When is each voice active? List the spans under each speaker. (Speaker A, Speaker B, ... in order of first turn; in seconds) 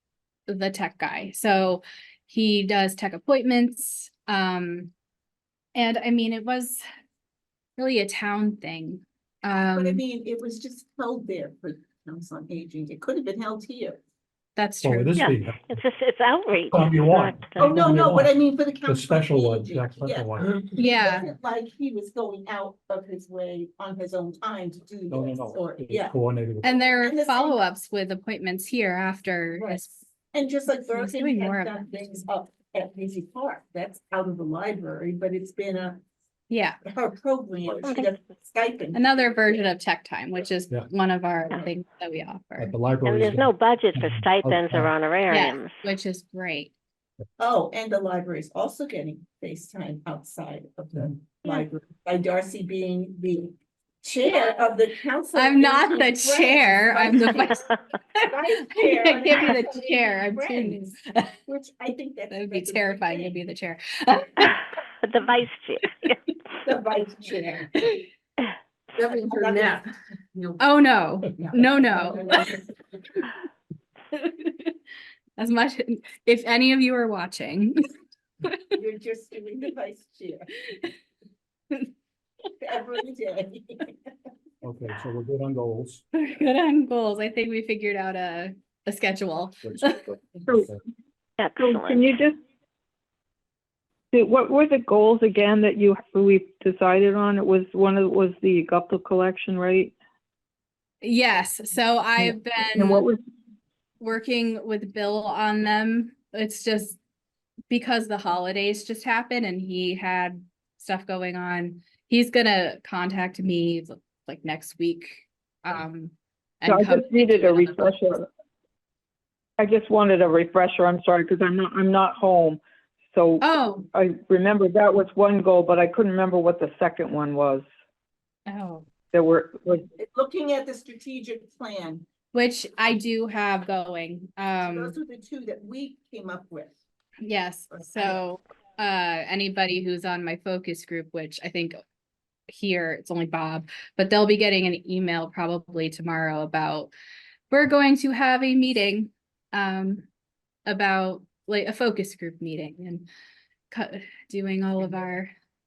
Speaker A: 0.5-4.9, 5.8-6.8, 7.8-10.0, 14.6-15.2, 20.8-21.3, 26.6-29.9, 30.9-31.8, 36.5-36.8, 38.9-42.7, 45.3-46.7, 55.4-57.7, 58.8-61.3, 62.3-64.6, 67.8-68.0, 70.6-72.6, 74.1-74.7, 75.4-77.9, 86.1-90.1, 101.0-103.0, 104.0-107.0, 107.7-118.0, 123.4-123.9, 128.5-128.9, 132.3-135.0, 137.2-141.8, 142.5-146.9, 147.5-150.1, 150.7-153.1, 153.7-155.3
Speaker B: 9.7-14.0, 17.6-26.1, 27.0-27.6, 29.5-36.0, 36.9-39.6, 47.4-57.7, 58.2-61.0, 61.5-63.3, 66.6-67.8, 69.1-69.8, 71.3-72.7, 78.8-80.5, 82.6-84.0, 130.0-132.1, 134.6-136.8, 137.7-138.2
Speaker C: 14.8-15.7, 16.7-20.6, 25.1-26.8, 42.6-45.0, 84.6-86.0, 90.5-90.8
Speaker D: 15.2-17.8, 37.8-38.1, 43.0-45.7, 65.0-66.2, 91.4-92.0
Speaker E: 91.6-92.4, 94.1-99.9, 102.2-103.2, 116.7-118.3, 119.6-122.6, 123.1-127.6, 129.1-129.9